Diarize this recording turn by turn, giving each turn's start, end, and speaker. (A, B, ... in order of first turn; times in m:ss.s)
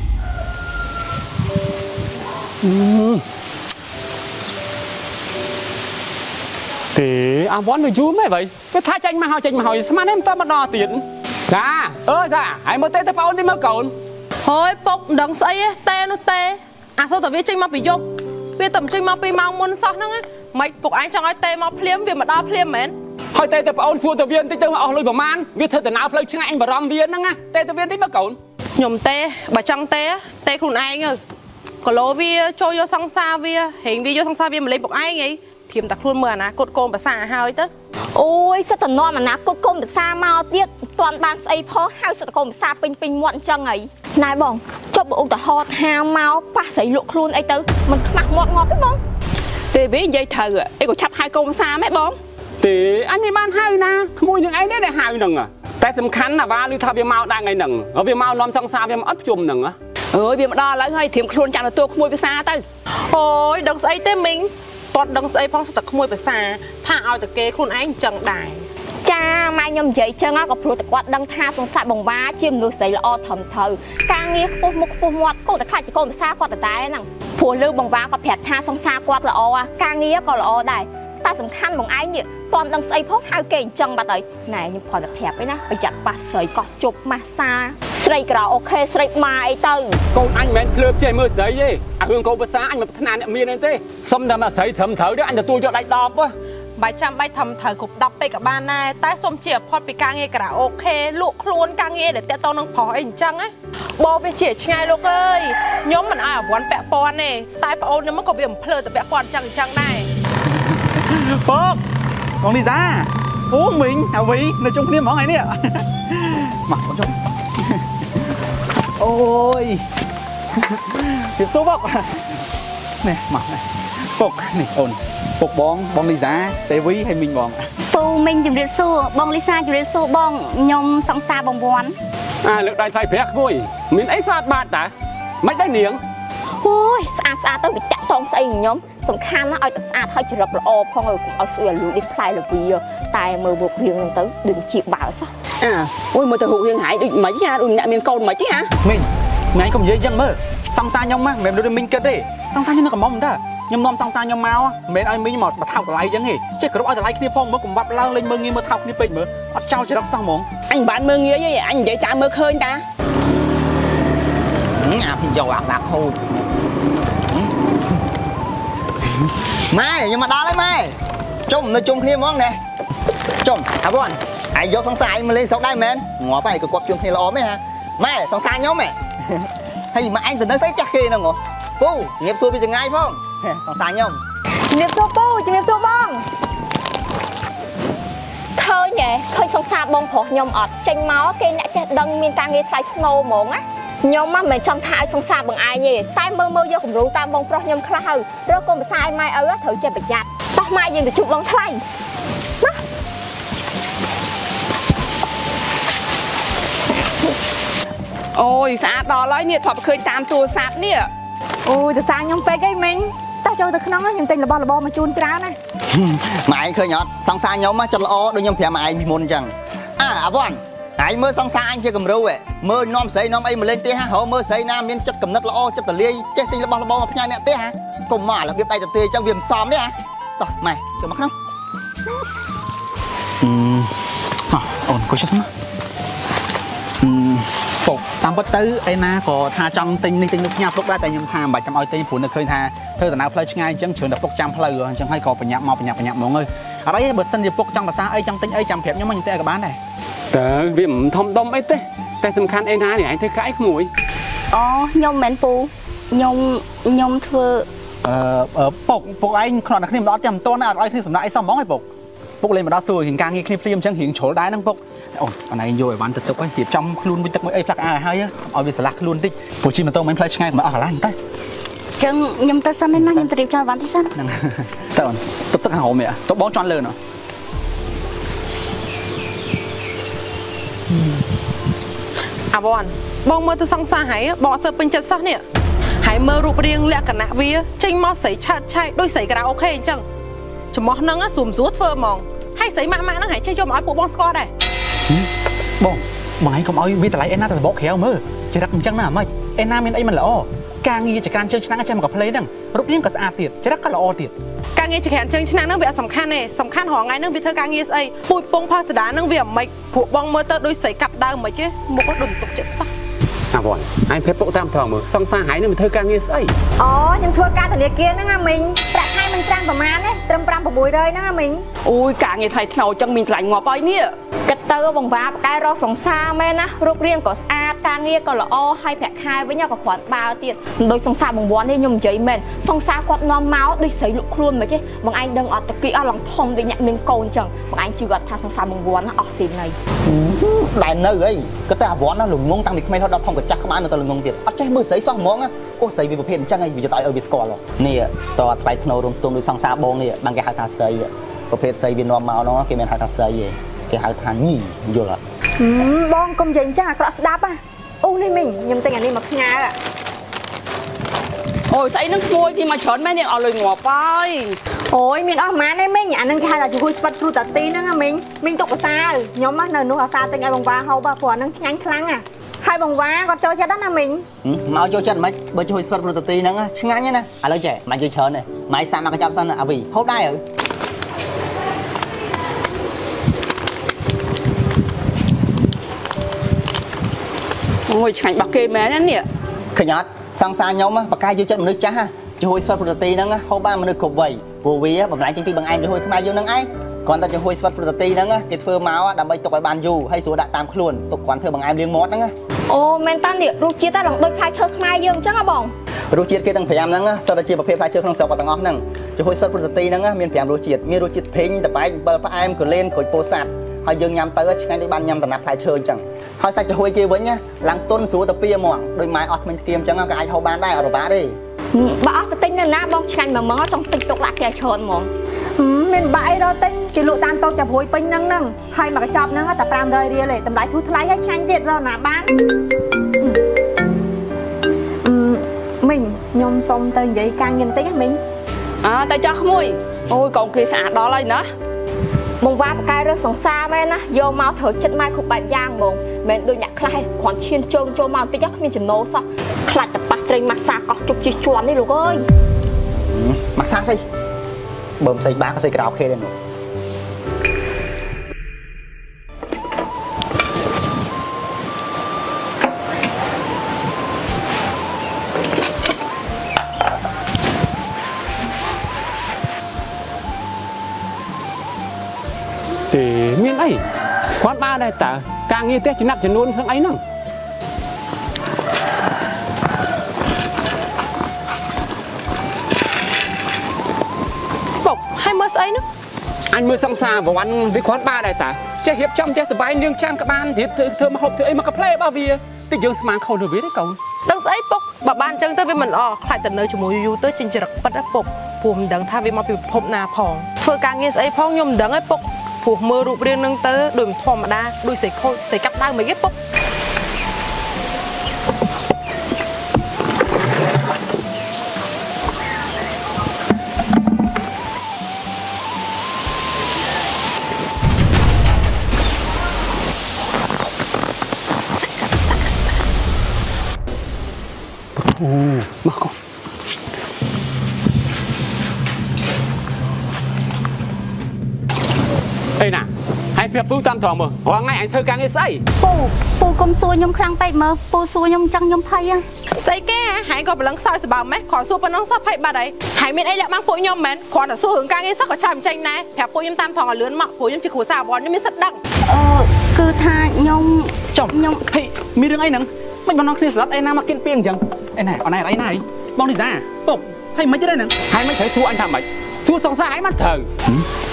0:02.6-0:03.2 A
0:06.9-0:13.9 A
0:14.4-0:18.0 B
0:18.6-0:23.0 B
0:23.3-0:28.4 A
0:28.8-0:31.2 B
0:31.8-0:37.7 B
0:38.1-0:49.0 C
0:49.7-0:52.2 D
0:52.6-0:59.8 A
1:00.1-1:02.6 D
1:03.1-1:08.7 B
1:09.0-1:30.0 C
1:30.1-1:36.3 A
1:36.8-1:50.1 B
1:50.5-1:51.8 E
1:52.4-1:57.8 E
1:59.0-1:59.8 E
2:00.5-2:02.2 E
2:03.0-2:03.6 E
2:04.2-2:07.6 E
2:07.9-2:12.0 F
2:12.4-2:14.9 A
2:15.4-2:16.0 A
2:16.6-2:25.3 C
2:25.6-2:28.7 D
2:28.8-2:40.5 E
2:40.7-2:42.8 D
2:44.8-2:46.2 G
2:49.7-2:51.0 G
2:51.5-2:52.6 G
2:53.4-3:04.2 G
3:04.7-3:06.2 H
3:08.6-3:21.8 C
3:28.3-3:31.1 D
3:31.7-3:35.6 H
3:35.9-3:51.3 G
3:53.4-3:53.9 E
3:54.5-3:55.5 E
3:57.0-4:09.8 E
4:10.3-4:13.9 A
4:14.5-4:17.7 F
4:18.0-4:21.9 E
4:22.4-4:31.2 E
4:32.0-4:34.1 F
4:32.9-4:33.3 E
4:34.2-4:37.0 E
4:42.5-4:45.4 B
4:46.0-4:50.0 B
4:50.7-4:54.5 B
4:55.8-5:04.3 E
5:04.8-5:12.9 B
5:13.5-5:16.5 A
5:16.8-5:21.6 H
5:21.8-5:24.1 D
5:24.4-5:39.8 C
5:40.1-5:55.2 G
5:55.6-5:59.8 H
6:01.7-6:04.6 D
6:04.9-6:14.2 H
6:14.4-6:20.4 G
6:27.9-6:29.2 D
6:29.7-6:42.3 G
6:42.7-6:45.7 C
6:46.1-7:01.4 G
7:01.7-7:05.1 C
7:05.6-7:12.3 H
7:15.0-7:18.2 H
7:18.8-7:21.5 D
7:22.4-7:32.2 C
7:33.1-7:34.0 G
7:35.0-7:36.3 G
7:52.9-7:53.8 A
7:54.4-7:57.0 A
8:04.8-8:05.8 B
8:06.5-8:14.0 A
8:14.2-8:26.3 B
8:41.7-8:42.6 B
8:45.0-8:46.1 A
8:52.6-8:55.6 A
8:55.8-8:59.2 F
8:59.6-9:08.8 B
9:09.1-9:11.6 F
9:11.1-9:17.9 E
9:18.1-9:20.5 A